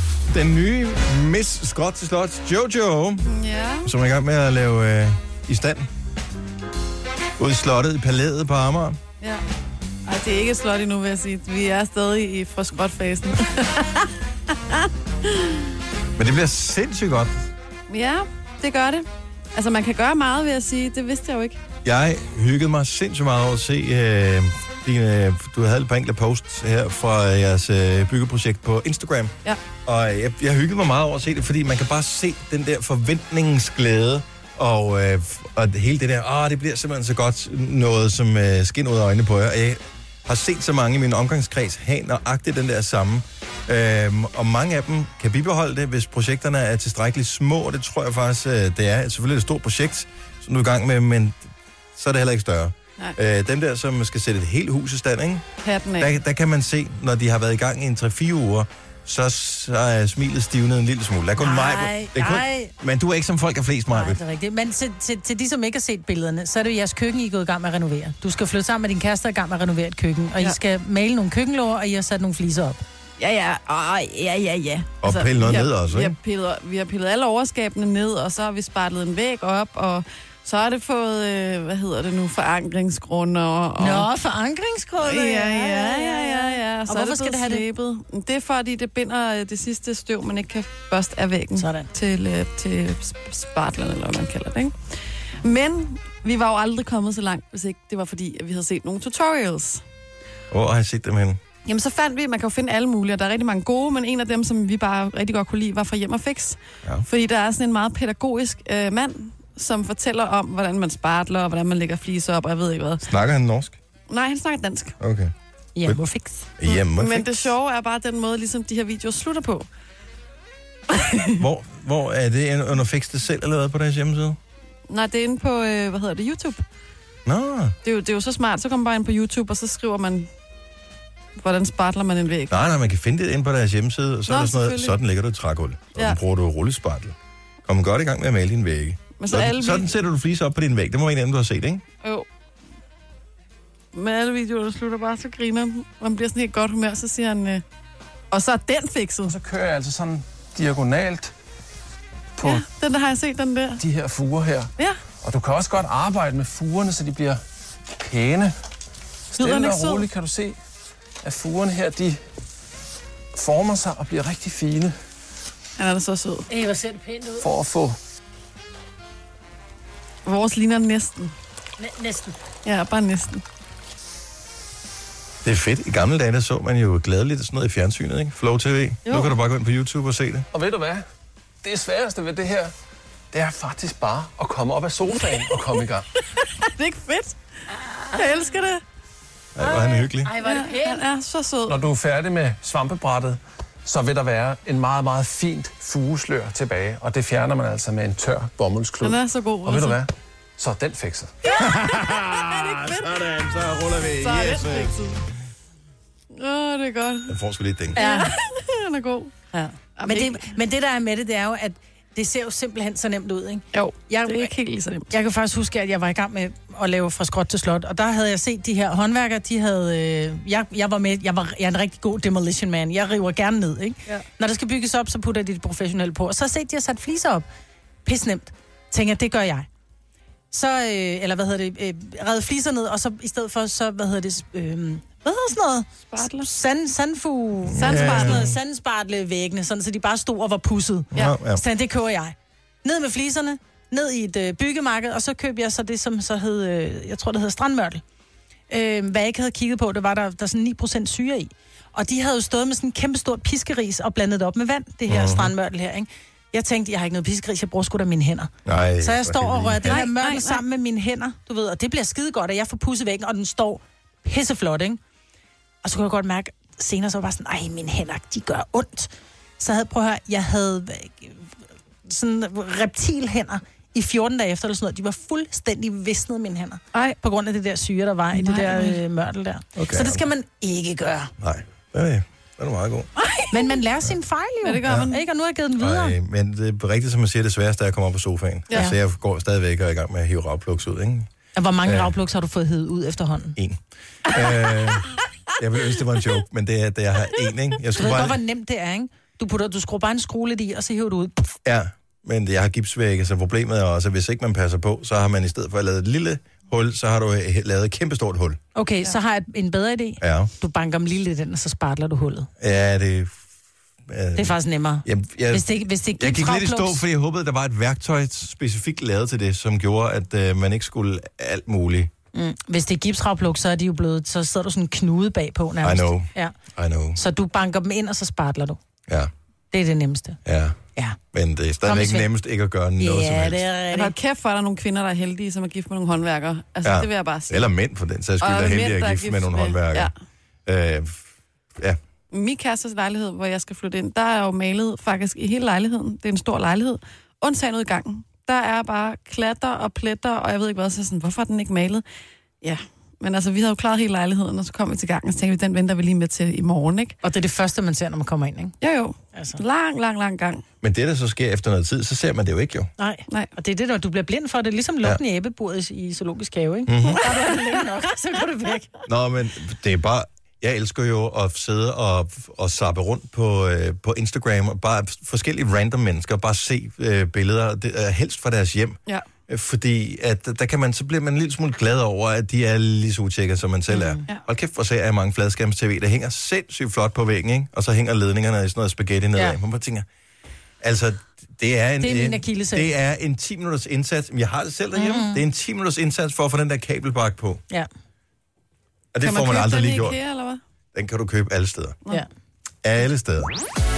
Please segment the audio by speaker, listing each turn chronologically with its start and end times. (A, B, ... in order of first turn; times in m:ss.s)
0:00.3-0:03.2 A
0:03.3-0:03.9 B
0:03.8-0:05.9 A
0:07.4-0:09.0 A
0:10.0-0:15.6 B
0:16.2-0:17.4 A
0:17.9-0:21.6 B
0:21.8-0:29.3 A
0:29.8-0:51.4 A
0:52.0-0:55.4 A
0:55.6-0:56.1 B
0:56.0-1:04.2 A
1:01.4-1:02.7 C
1:03.9-1:12.8 C
1:13.2-1:24.1 B
1:15.0-1:16.1 A
1:23.8-1:27.6 C
1:25.0-1:34.7 B
1:31.6-1:31.9 C
1:35.4-1:39.8 B
1:40.5-1:41.4 A
1:41.6-1:53.0 B
1:53.0-1:53.8 A
1:54.1-1:55.0 B
1:55.0-1:55.3 A
1:55.8-1:56.4 C
1:56.6-1:57.4 A
1:56.6-1:59.7 B
2:00.9-2:01.4 B
2:01.4-2:04.4 A
2:04.9-2:06.6 B
2:07.2-2:07.8 A
2:07.8-2:10.3 B
2:11.4-2:12.5 B
2:12.5-2:17.1 A
2:14.3-2:15.0 B
2:17.6-2:21.8 A
2:19.2-2:19.9 B
2:23.9-2:27.6 B
2:28.3-2:29.4 B
2:29.2-2:31.3 D
2:32.4-2:32.6 D
2:32.4-2:33.8 B
2:33.8-2:34.7 D
2:35.2-2:38.6 D
2:39.3-2:40.1 B
2:39.3-2:40.6 D
2:41.2-2:42.2 D
2:43.3-2:44.9 D
2:45.8-2:46.5 B
2:46.5-2:47.4 C
2:47.4-2:48.0 D
2:50.2-2:51.3 B
2:51.8-2:52.4 C
2:52.6-2:53.4 B
2:55.4-3:00.5 A
2:59.0-2:59.4 B
3:00.5-3:01.0 D
3:01.6-3:02.7 D
3:03.3-3:06.0 D
3:06.3-3:07.4 B
3:08.1-3:08.8 B
3:09.5-3:10.3 A
3:09.6-3:11.0 C
3:10.4-3:11.8 B
3:11.7-3:21.3 D
3:19.0-3:20.0 B
3:21.4-3:23.4 B
3:21.6-3:24.9 A
3:24.2-3:25.2 B
3:26.3-3:27.3 B
3:27.3-3:28.0 A
3:27.9-3:28.3 C
3:28.0-3:30.4 B
3:29.5-3:34.5 C
3:33.7-3:35.1 B
3:35.1-3:47.4 C
3:48.0-3:49.7 C
3:50.5-4:08.0 C
3:56.1-3:56.5 B
3:57.7-3:58.6 A
3:57.7-3:58.5 B
4:01.1-4:01.6 A
4:08.7-4:25.0 C
4:15.1-4:15.5 A
4:18.6-4:20.0 A
4:19.8-4:20.6 B
4:25.8-4:31.5 C
4:32.0-4:41.3 C
4:38.3-4:39.0 B
4:39.8-4:40.2 A
4:41.4-4:43.1 A
4:43.2-4:43.8 B
4:43.5-4:46.2 C
4:44.6-4:45.2 B
4:44.8-4:45.1 A
4:45.8-4:51.3 A
4:51.5-4:53.6 C
4:51.8-4:52.1 A
4:53.6-4:58.4 A
4:58.0-5:01.5 C
5:01.6-5:08.6 A
5:08.7-5:12.5 C
5:10.2-5:10.5 A
5:12.6-5:13.3 A
5:14.1-5:22.1 A
5:14.4-5:17.0 C
5:22.3-5:26.5 C
5:25.8-5:27.2 A
5:27.1-5:28.8 C
5:29.7-5:30.4 C
5:30.4-5:30.8 A
5:31.3-5:33.7 A
5:31.8-5:32.3 C
5:33.0-5:34.1 C
5:33.9-5:37.7 B
5:36.8-5:40.1 A
5:38.4-5:40.1 B
5:40.6-5:41.2 A
5:42.3-5:52.0 B
5:52.6-5:57.2 B
5:57.2-5:58.8 C
5:58.8-6:00.6 B
5:59.3-5:59.6 C
6:00.8-6:02.9 A
6:03.0-6:08.9 C
6:06.8-6:07.2 A
6:09.0-6:30.0 A
6:23.9-6:24.2 C
6:30.8-6:37.6 A
6:32.0-6:32.9 C
6:34.9-6:35.4 C
6:39.1-6:40.2 A
6:39.2-6:40.6 B
6:40.9-6:42.0 A
6:42.8-6:43.5 A